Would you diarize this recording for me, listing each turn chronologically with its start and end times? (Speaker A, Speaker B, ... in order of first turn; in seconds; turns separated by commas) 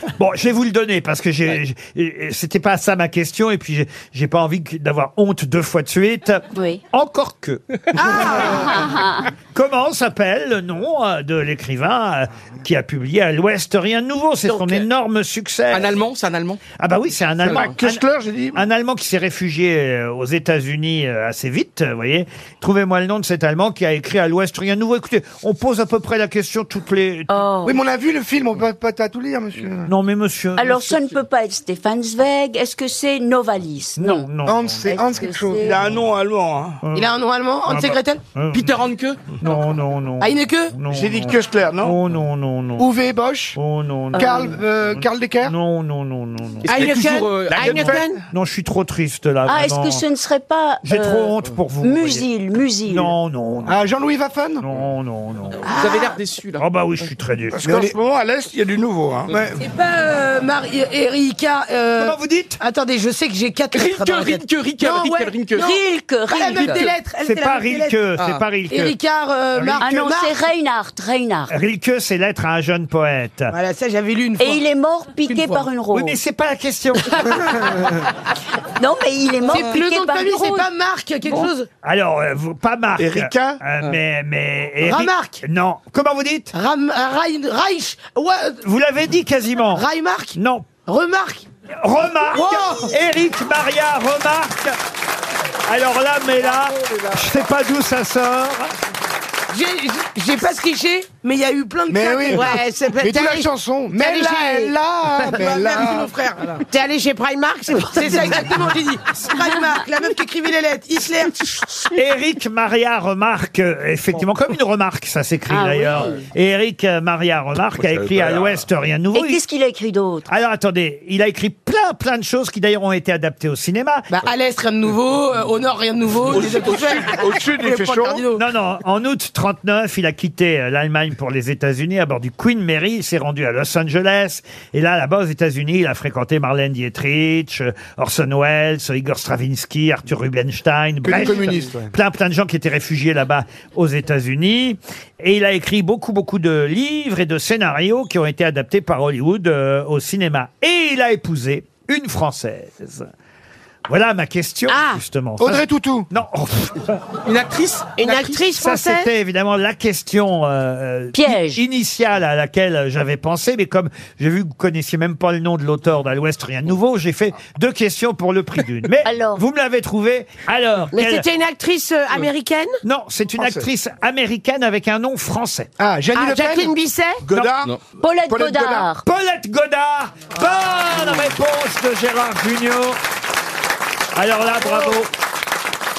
Speaker A: 0.2-8.6, Speaker B: 6.5-6.8, Speaker B: 8.0-9.3, Speaker A: 9.5-15.9, Speaker C: 15.7-16.6, Speaker A: 16.8-27.3, Speaker D: 17.4-18.6, Speaker B: 27.3-27.8, Speaker E: 27.6-29.9, Speaker A: 29.9-31.0, Speaker B: 30.6-34.3, Speaker A: 34.0-34.9, Speaker E: 34.4-35.8, Speaker B: 34.8-35.9, Speaker D: 35.6-36.8, Speaker A: 36.8-37.1, Speaker F: 36.9-38.2, Speaker A: 37.6-38.8, Speaker C: 38.5-39.2, Speaker A: 39.4-42.9, Speaker F: 40.2-40.7, Speaker D: 40.9-42.0, Speaker E: 42.8-43.6, Speaker A: 43.5-46.8, Speaker E: 44.1-45.5, Speaker B: 44.1-44.5, Speaker C: 46.6-48.0, Speaker G: 46.6-48.2, Speaker D: 47.5-48.1, Speaker A: 48.3-50.0, Speaker B: 49.5-53.1, Speaker A: 50.8-52.3, Speaker A: 52.9-53.8, Speaker E: 53.7-54.6, Speaker A: 54.6-55.7, Speaker C: 55.6-56.6, Speaker F: 55.7-56.1, Speaker A: 56.6-57.9, Speaker D: 57.5-59.6, Speaker F: 59.6-68.0, Speaker A: 62.0-62.6, Speaker C: 63.7-65.7, Speaker B: 65.5-66.9, Speaker A: 66.6-69.0, Speaker F: 68.7-70.4, Speaker A: 69.5-69.9, Speaker B: 69.8-71.5, Speaker A: 71.5-73.5, Speaker F: 73.5-74.6, Speaker B: 74.4-76.2, Speaker F: 75.2-75.7, Speaker A: 75.9-77.6, Speaker B: 78.8-80.7, Speaker F: 79.4-81.7, Speaker A: 81.8-86.5, Speaker D: 83.0-83.6, Speaker F: 84.8-85.4, Speaker F: 86.5-88.6, Speaker A: 88.6-90.7, Speaker F: 89.7-91.5, Speaker A: 91.8-94.8, Speaker F: 92.3-92.9, Speaker A: 95.7-98.7, Speaker E: 96.6-97.4, Speaker F: 99.5-102.6, Speaker E: 101.9-106.1, Speaker G: 102.3-104.7, Speaker F: 105.2-106.6, Speaker G: 106.7-108.7, Speaker F: 107.9-111.6, Speaker A: 111.9-119.4, Speaker B: 115.5-116.2, Speaker D: 117.8-118.6, Speaker B: 119.1-120.3, Speaker A: 120.3-124.1, Speaker F: 124.1-128.4, Speaker D: 126.2-128.3, Speaker A: 128.3-153.1, Speaker E: 141.0-141.9, Speaker A: 153.9-156.9, Speaker G: 154.7-155.0, Speaker E: 155.4-156.1, Speaker C: 157.2-158.4, Speaker G: 158.0-159.1, Speaker A: 158.6-171.2, Speaker B: 161.1-161.6, Speaker B: 169.0-169.4, Speaker G: 170.9-172.8, Speaker A: 172.8-175.7, Speaker D: 173.4-173.6, Speaker E: 175.8-176.7, Speaker G: 176.1-177.2, Speaker D: 177.2-177.8, Speaker B: 178.0-179.0, Speaker D: 178.3-178.7, Speaker E: 178.4-178.8, Speaker A: 179.0-183.0, Speaker A: 184.2-185.1